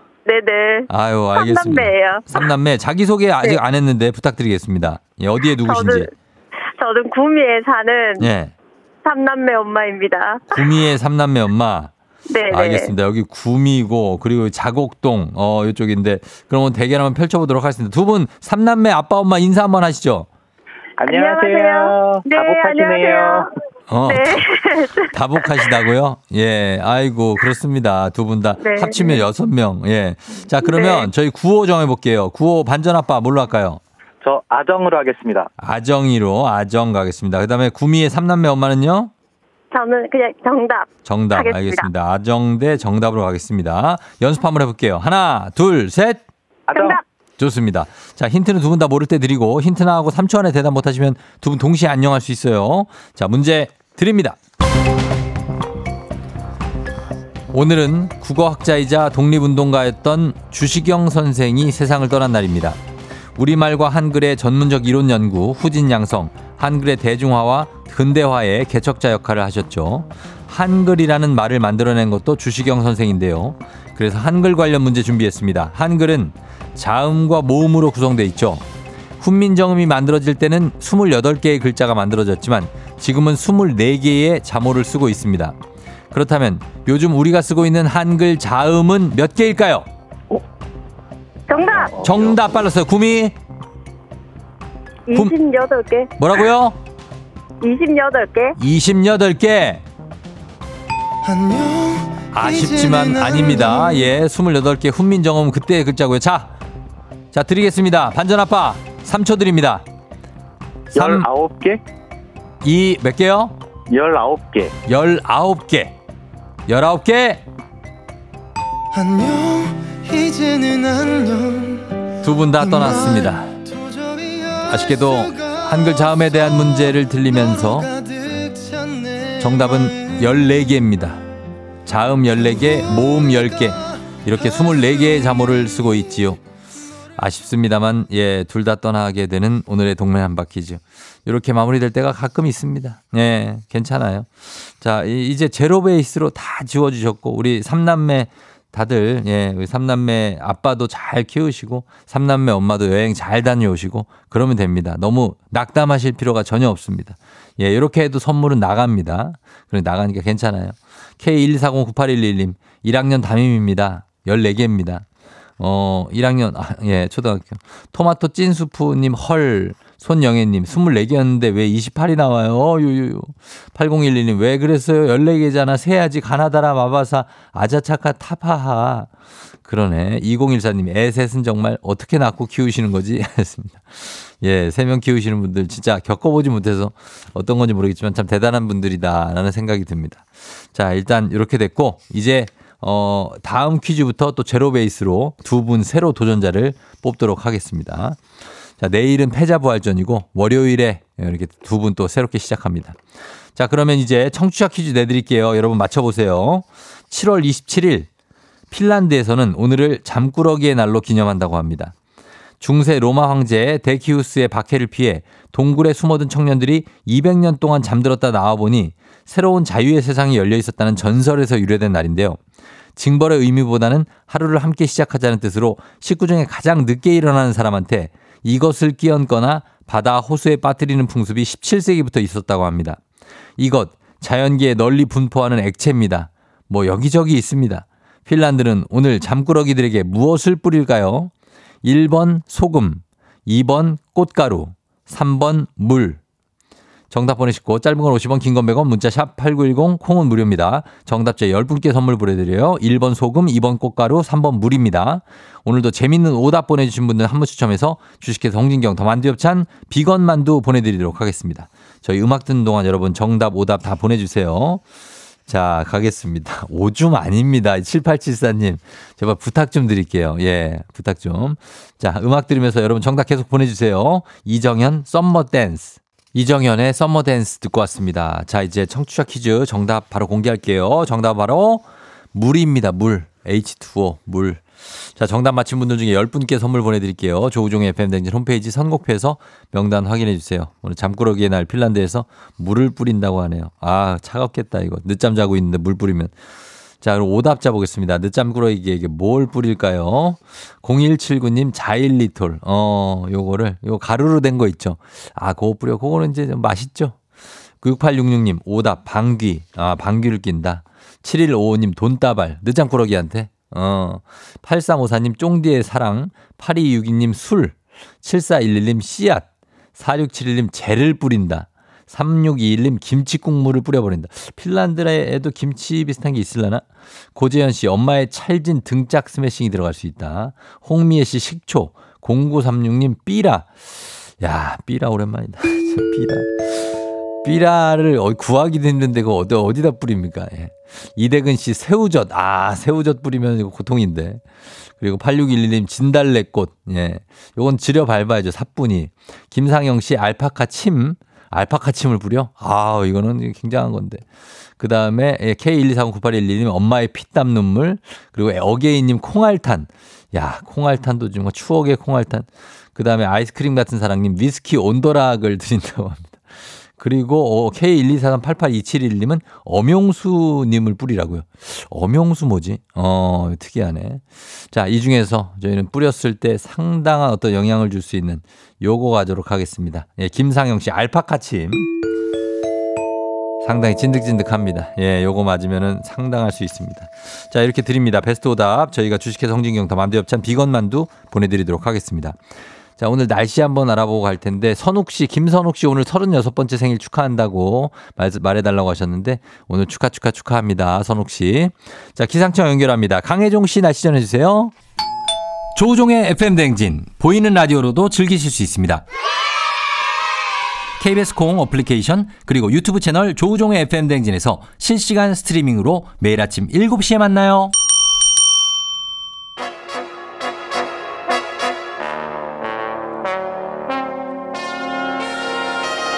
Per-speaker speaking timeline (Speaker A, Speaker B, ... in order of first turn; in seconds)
Speaker A: 0.3-2.5, 5.6-6.1, 6.8-8.3, 9.1-10.6, 12.3-12.9, 21.0-23.5, 24.1-25.7, 28.6-29.2, 30.6-31.1, 39.7-41.9, 46.7-47.0, 91.5-91.9, 95.1-96.1, 97.6-98.5
Speaker B: 0.9-6.1, 8.2-8.5, 10.5-11.9, 12.5-20.3, 23.9-24.4, 25.1-33.8, 35.6-39.1, 41.0-46.2, 47.4-54.4, 57.5-62.8, 63.4-78.6, 79.2-85.6, 86.1-89.9, 91.8-93.3, 96.2-96.8, 98.6-99.8, 102.3-106.5, 107.3-109.8, 111.0-111.3, 112.6-113.5, 114.9-115.9, 116.7-117.4, 122.2-123.5, 124.6-127.9, 129.4-131.2, 131.9-136.4, 137.2-165.1, 165.6-179.1, 179.7-198.2, 198.8-203.0, 203.6-208.1, 208.7-211.9, 212.6-222.4, 223.0-233.0, 233.6-241.3, 241.8-246.2, 247.1-264.8, 265.5-296.3, 297.0-307.2, 307.8-333.8, 334.4-336.7, 337.4-344.4, 345.0-354.2, 354.8-366.4, 367.0-381.9, 383.6-392.4, 393.0-404.7, 405.8-409.0, 411.0-417.7
Speaker C: 21.0-23.5, 34.2-35.5, 46.7-47.0, 111.0-111.8, 113.9-114.7